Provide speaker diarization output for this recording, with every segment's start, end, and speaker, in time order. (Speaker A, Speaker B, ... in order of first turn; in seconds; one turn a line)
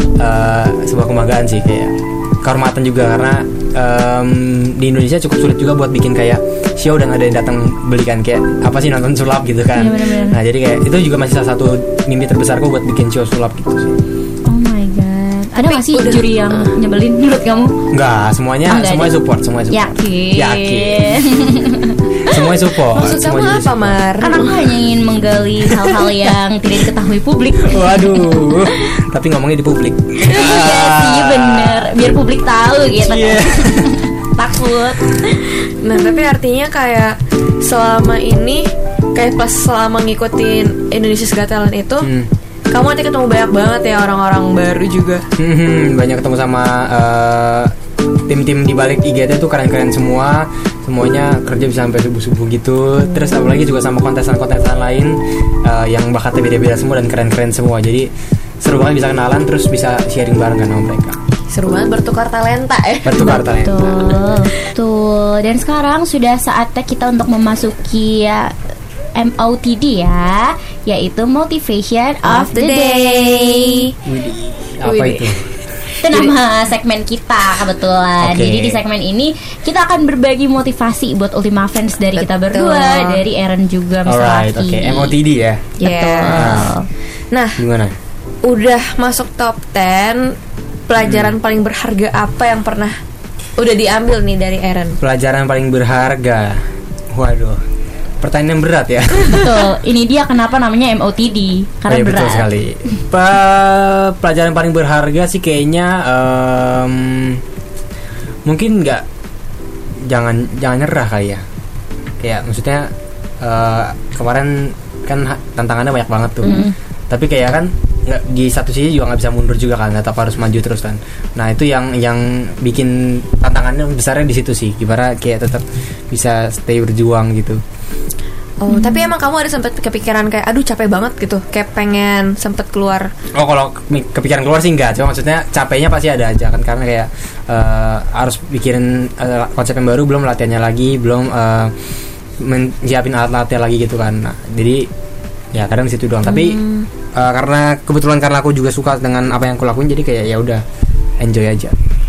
Speaker A: 0.2-14.0
Speaker B: 9.8-10.4
Speaker B: 14.5-17.8
Speaker C: 15.7-16.7
Speaker A: 17.9-21.3
Speaker B: 18.7-19.2
Speaker B: 19.7-22.3
Speaker A: 22.2-24.0
Speaker C: 22.9-24.6
Speaker B: 24.2-28.7
Speaker A: 25.6-26.0
Speaker A: 27.6-32.2
Speaker B: 30.2-35.4
Speaker A: 32.9-34.0
Speaker C: 35.8-42.1
Speaker B: 36.0-36.2
Speaker A: 42.0-42.3
Speaker C: 42.7-45.2
Speaker A: 45.4-47.7
Speaker A: 48.3-61.2
Speaker C: 61.5-63.4
Speaker A: 63.0-64.1
Speaker B: 63.2-68.5
Speaker B: 69.2-73.9
Speaker C: 72.2-73.9
Speaker A: 74.1-75.4
Speaker C: 74.8-75.3
Speaker B: 76.0-85.2
Speaker C: 76.1-76.3
Speaker A: 78.2-78.8
Speaker C: 82.2-83.2
Speaker A: 84.1-86.7
Speaker B: 85.8-86.9
Speaker C: 85.8-86.7
Speaker C: 87.3-87.6
Speaker A: 87.6-88.0
Speaker C: 88.4-90.4
Speaker C: 90.9-93.0
Speaker A: 91.0-91.4
Speaker C: 93.6-95.0
Speaker A: 95.0-96.6
Speaker A: 97.1-97.6
Speaker A: 98.2-99.5
Speaker B: 99.3-102.5
Speaker A: 101.9-107.4
Speaker A: 108.5-109.0
Speaker A: 110.0-111.4
Speaker A: 112.2-127.6
Speaker B: 116.5-116.7
Speaker C: 128.6-133.1
Speaker B: 128.7-129.1
Speaker A: 133.3-141.7
Speaker A: 142.4-144.9
Speaker A: 145.5-146.6
Speaker C: 146.3-146.9
Speaker A: 147.1-150.6
Speaker A: 151.2-151.8